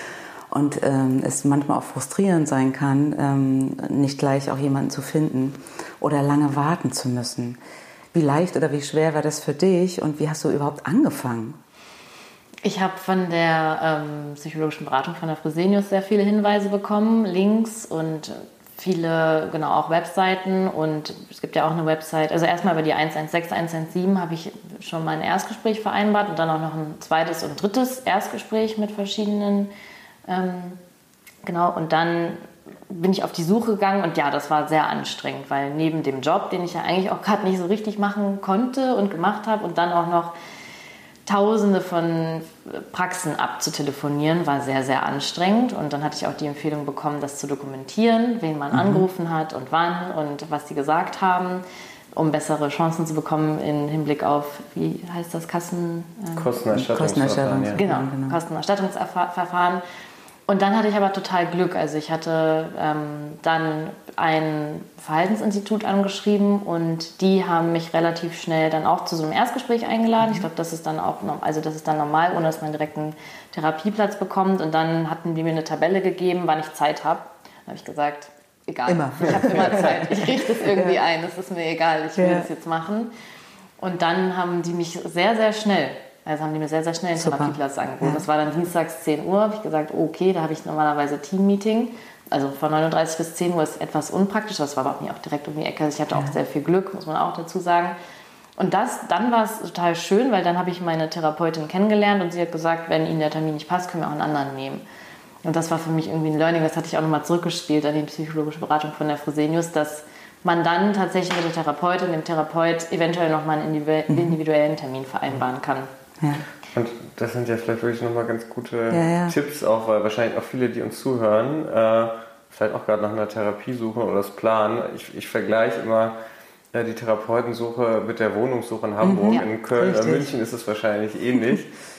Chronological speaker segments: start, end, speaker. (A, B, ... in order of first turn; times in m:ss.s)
0:00.5-0:07.6 A
0:08.1-0:11.6 A
0:12.6-0:29.7 B
0:30.3-0:30.8 B
0:31.4-0:40.3 B
0:41.3-0:51.6 B
0:48.7-0:49.0 A
0:52.2-0:56.6 B
0:56.4-0:57.8 C
0:56.7-0:58.4 A
0:57.7-0:59.8 B
1:00.5-1:23.1 B
1:18.9-1:21.0 A
1:22.2-1:22.5 A
1:23.8-1:38.0 B
1:27.2-1:28.2 A
1:38.6-1:44.8 B
1:45.4-1:55.9 B
1:54.1-1:54.4 A
1:56.2-1:56.4 A
1:56.7-2:06.2 C
1:58.9-1:59.4 A
2:06.7-2:11.7 C
2:09.0-2:10.3 A